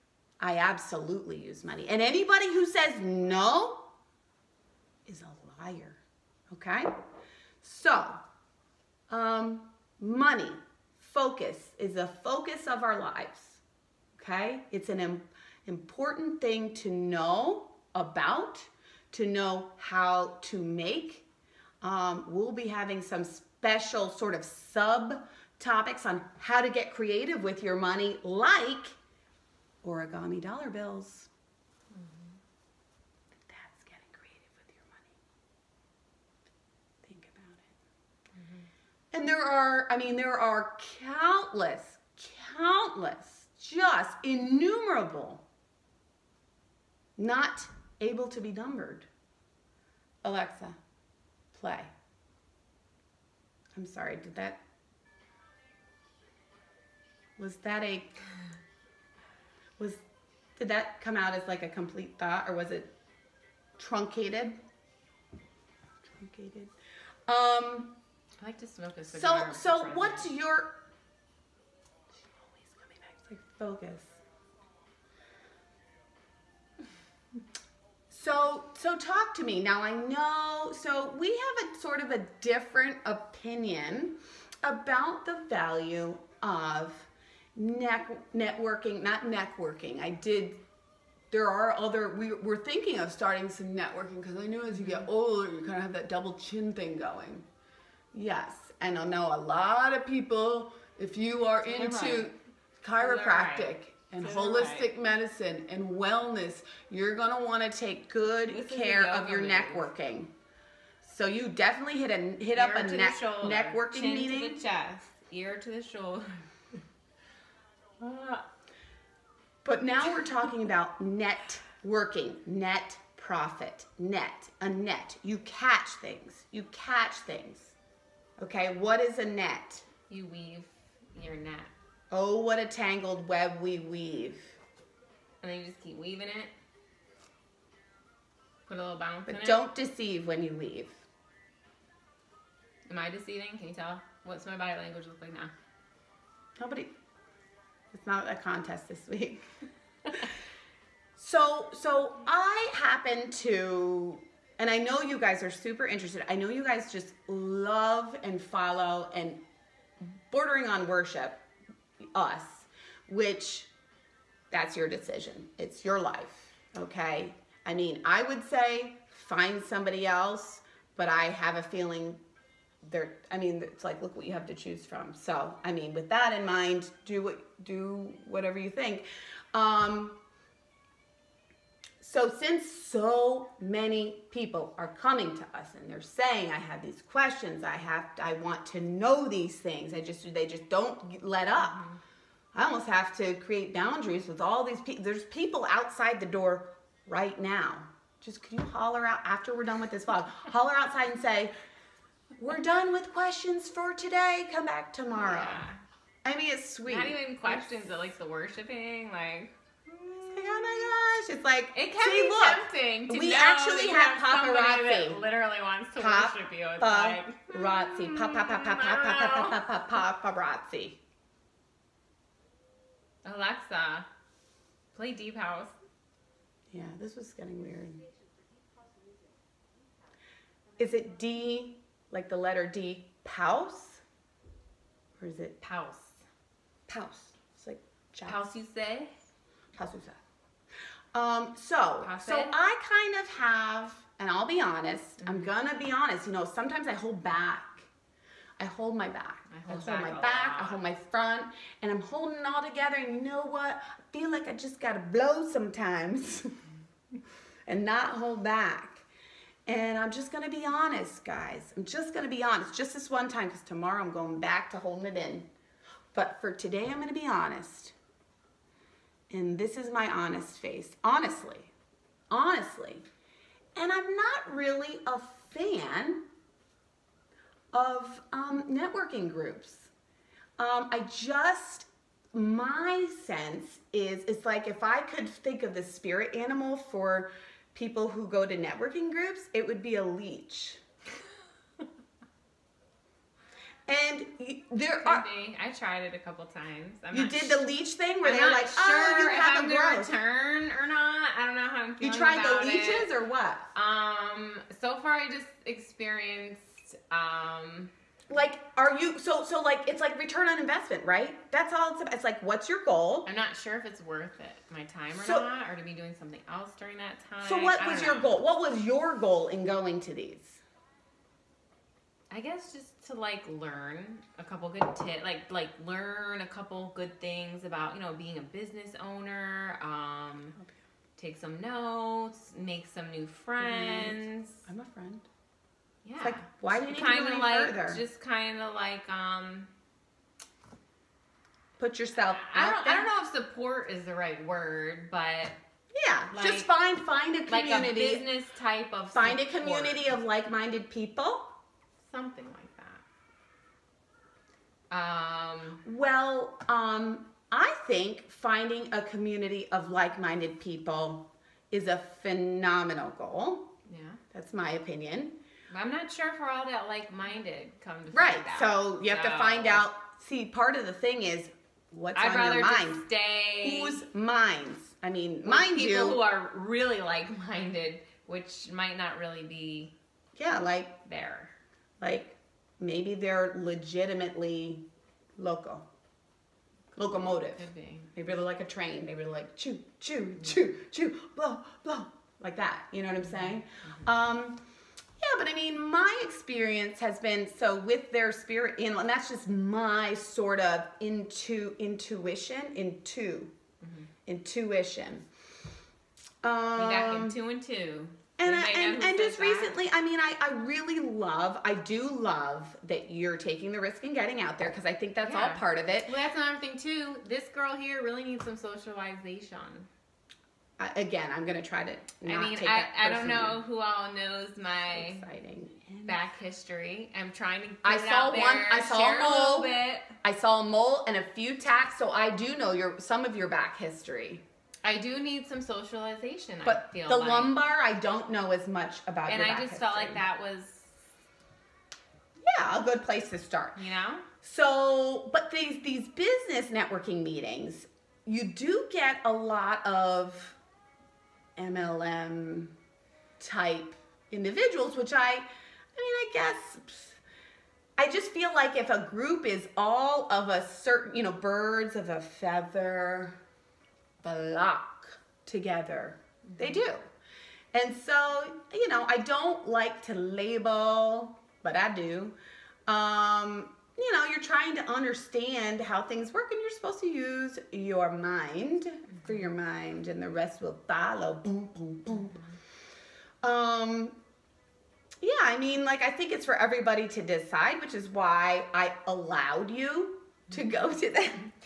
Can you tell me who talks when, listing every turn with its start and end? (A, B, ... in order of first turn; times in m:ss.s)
0:00.4-0:03.9 A
0:05.0-0:06.9 A
0:07.6-0:08.2 A
0:09.1-0:13.6 A
0:14.2-0:21.2 A
0:21.8-0:29.0 A
0:29.8-0:31.3 A
0:31.9-0:32.4 B
0:33.4-0:35.1 A
0:37.0-0:37.7 A
0:38.4-0:38.6 B
0:39.1-0:45.4 A
0:47.2-0:49.1 A
0:50.2-0:50.8 A
0:51.5-0:51.9 A
0:53.7-0:54.6 A
0:57.4-0:58.1 A
1:00.6-1:02.9 A
1:03.8-1:04.6 A
1:06.0-1:06.7 A
1:07.3-1:07.9 A
1:08.4-1:10.3 B
1:09.1-1:10.7 A
1:12.4-1:14.2 A
1:18.1-1:30.6 A
1:31.3-1:37.4 A
1:34.7-1:35.1 B
1:38.1-1:50.3 A
1:41.6-1:42.3 B
1:43.0-1:44.9 B
1:48.3-1:49.9 B
1:51.0-1:54.6 A
1:52.5-1:56.5 B
1:58.0-1:58.4 B
1:59.6-2:07.7 A
2:08.4-2:09.8 A
2:10.1-2:11.7 B
2:12.1-2:14.6 A
2:15.4-2:16.5 B
2:18.6-2:19.6 B
2:19.3-2:21.0 A
2:22.9-2:25.5 B
2:26.6-2:26.9 A
2:27.9-2:29.4 A
2:31.2-2:39.4 A
2:40.3-2:41.4 A
2:42.1-2:43.7 A
2:44.5-2:52.2 A
2:52.8-3:00.2 A
3:02.0-3:11.8 A
3:11.6-3:12.0 B
3:12.5-3:21.5 A
3:22.4-3:25.6 A
3:25.1-3:25.8 B
3:26.2-3:27.8 A
3:26.8-3:30.9 B
3:30.2-3:35.2 A
3:31.7-3:39.6 B
3:36.0-3:41.0 A
3:43.2-3:44.0 B
3:44.9-3:45.8 B
3:46.7-3:48.0 A
3:50.8-3:54.0 A
3:55.2-3:55.6 A
3:55.6-3:56.2 B
3:56.9-3:58.4 A
3:58.2-3:59.1 B
3:59.7-4:00.2 A
4:01.1-4:07.9 A
4:02.0-4:02.5 B
4:05.2-4:05.5 B
4:08.6-4:16.6 A
4:09.5-4:10.8 B
4:17.7-4:19.0 A
4:19.6-4:25.5 A
4:26.1-4:27.9 A
4:29.3-4:31.7 A
4:32.3-4:33.0 A
4:33.8-4:36.2 A
4:37.7-4:39.9 A
4:40.6-4:50.8 A
4:53.9-4:55.2 A
4:55.0-4:57.6 B
4:57.1-5:00.1 A
4:58.2-5:03.1 B
5:02.0-5:03.7 A
5:03.7-5:07.9 B
5:08.3-5:13.3 A
5:13.2-5:18.3 B
5:17.4-5:20.6 A
5:22.3-5:30.5 B
5:31.2-5:34.6 B
5:33.6-5:35.2 A
5:36.0-5:39.7 B
5:36.2-5:38.0 A
5:41.8-5:43.1 A
5:42.3-5:45.6 B
5:45.9-5:48.2 A
5:46.3-5:46.7 B
5:47.5-5:50.1 B
5:49.1-5:51.5 A
5:52.0-5:53.0 B
5:54.9-5:55.8 B
5:55.8-6:03.7 A
6:03.9-6:04.2 B
6:04.3-6:05.3 A
6:05.7-6:09.8 B
6:08.1-6:13.0 A
6:12.1-6:14.0 B
6:13.6-6:16.2 A
6:15.4-6:19.9 B
6:20.3-6:21.0 A
6:21.0-6:21.5 B
6:22.0-6:24.8 A
6:25.4-6:25.8 A
6:26.9-6:34.6 A
6:27.2-6:28.1 B
6:33.4-6:34.1 B
6:35.2-6:43.5 A
6:43.8-6:44.1 B
6:44.2-6:45.2 A
6:46.4-6:47.4 A
6:46.8-6:49.7 B
6:48.4-6:56.1 A
6:55.2-6:59.9 B
7:00.8-7:03.6 A
7:02.2-7:05.2 B
7:04.9-7:06.2 A
7:06.0-7:10.1 B
7:07.8-7:14.4 A
7:14.8-7:17.6 B
7:16.6-7:20.2 A
7:19.3-7:21.0 B
7:22.4-7:23.8 A
7:23.8-7:24.2 B
7:24.4-7:30.6 A
7:31.6-7:32.7 A
7:33.4-7:37.2 A
7:38.0-7:43.4 A
7:44.2-7:47.0 A
7:46.5-7:46.8 B
7:47.7-7:52.3 A
7:52.9-8:02.4 A
8:03.4-8:04.1 A
8:05.2-8:11.5 A
8:10.5-8:11.0 B